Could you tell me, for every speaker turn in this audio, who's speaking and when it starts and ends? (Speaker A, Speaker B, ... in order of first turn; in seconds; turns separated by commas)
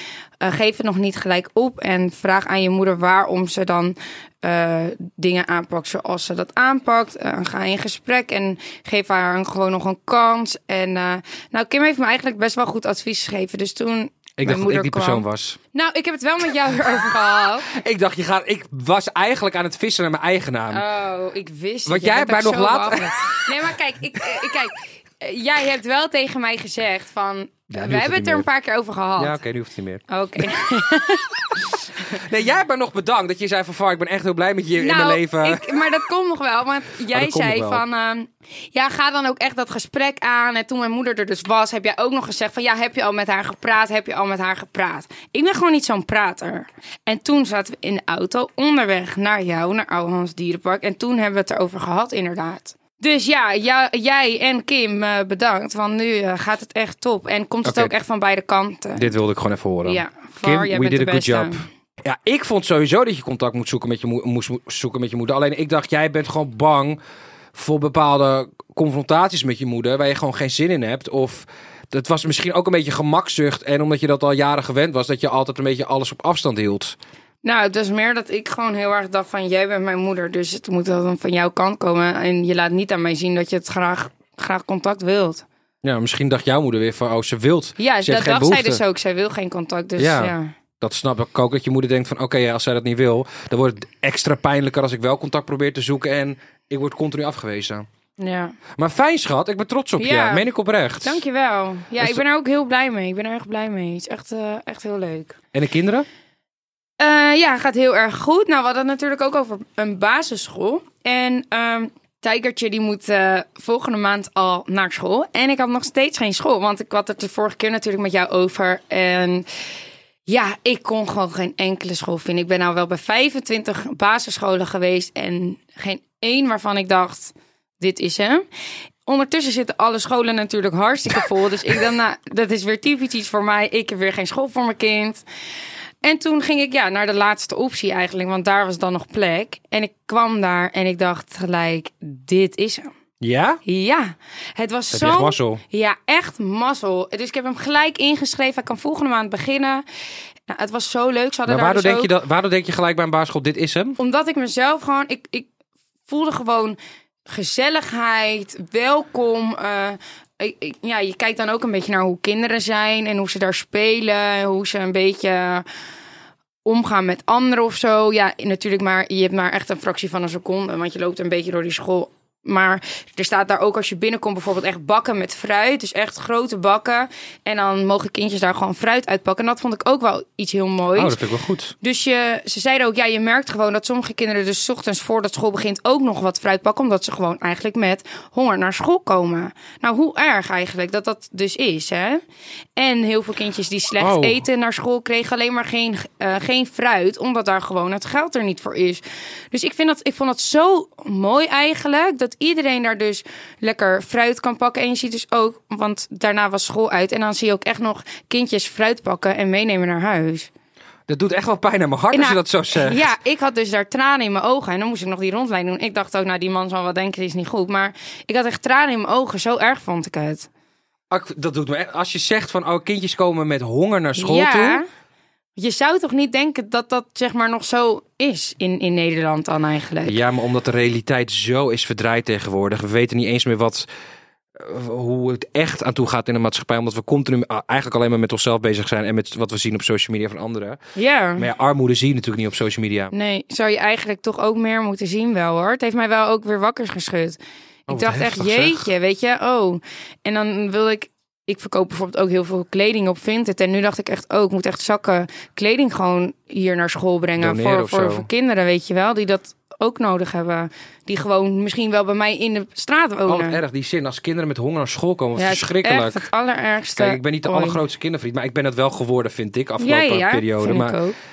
Speaker A: 0.4-17.7, Speaker B: 14.4-15.6, Speaker B: 17.6-20.8, Speaker A: 20.7-29.4, Speaker B: 21.9-23.5, Speaker B: 27.7-28.4, Speaker B: 29.2-30.5, Speaker A: 30.1-32.2, Speaker B: 32.1-35.8, Speaker A: 34.8-59.2, Speaker B: 37.1-37.8, Speaker B: 57.6-57.9, Speaker B: 59.0-67.0, Speaker A: 59.8-61.7, Speaker B: 67.5-77.0, Speaker A: 77.4-85.5, Speaker B: 85.8-88.8, Speaker A: 87.8-90.5, Speaker B: 90.0-97.8, Speaker A: 98.2-98.6, Speaker B: 98.8-101.2, Speaker A: 100.0-100.5, Speaker A: 101.0-105.4, Speaker B: 105.5-106.1, Speaker A: 107.0-119.5, Speaker A: 120.2-128.4, Speaker A: 129.1-135.2, Speaker A: 136.0-142.9, Speaker B: 143.2-143.6, Speaker A: 143.6-149.8, Speaker B: 144.9-145.6, Speaker A: 150.5-152.1, Speaker B: 151.5-154.0, Speaker A: 154.0-155.5, Speaker A: 156.1-165.6, Speaker A: 166.6-181.2, Speaker B: 180.9-181.7, Speaker A: 181.8-192.2, Speaker A: 192.8-210.5, Speaker B: 194.0-194.4, Speaker B: 211.1-213.1, Speaker A: 212.1-220.5, Speaker B: 221.1-224.8, Speaker A: 224.2-224.9, Speaker A: 225.6-230.2, Speaker B: 230.1-233.9, Speaker B: 234.6-240.8, Speaker A: 240.9-241.5, Speaker B: 241.4-243.1, Speaker A: 243.1-263.6, Speaker B: 247.9-248.9, Speaker B: 257.4-258.3, Speaker B: 263.2-266.3, Speaker A: 265.4-267.8, Speaker B: 266.9-271.0, Speaker A: 269.8-271.2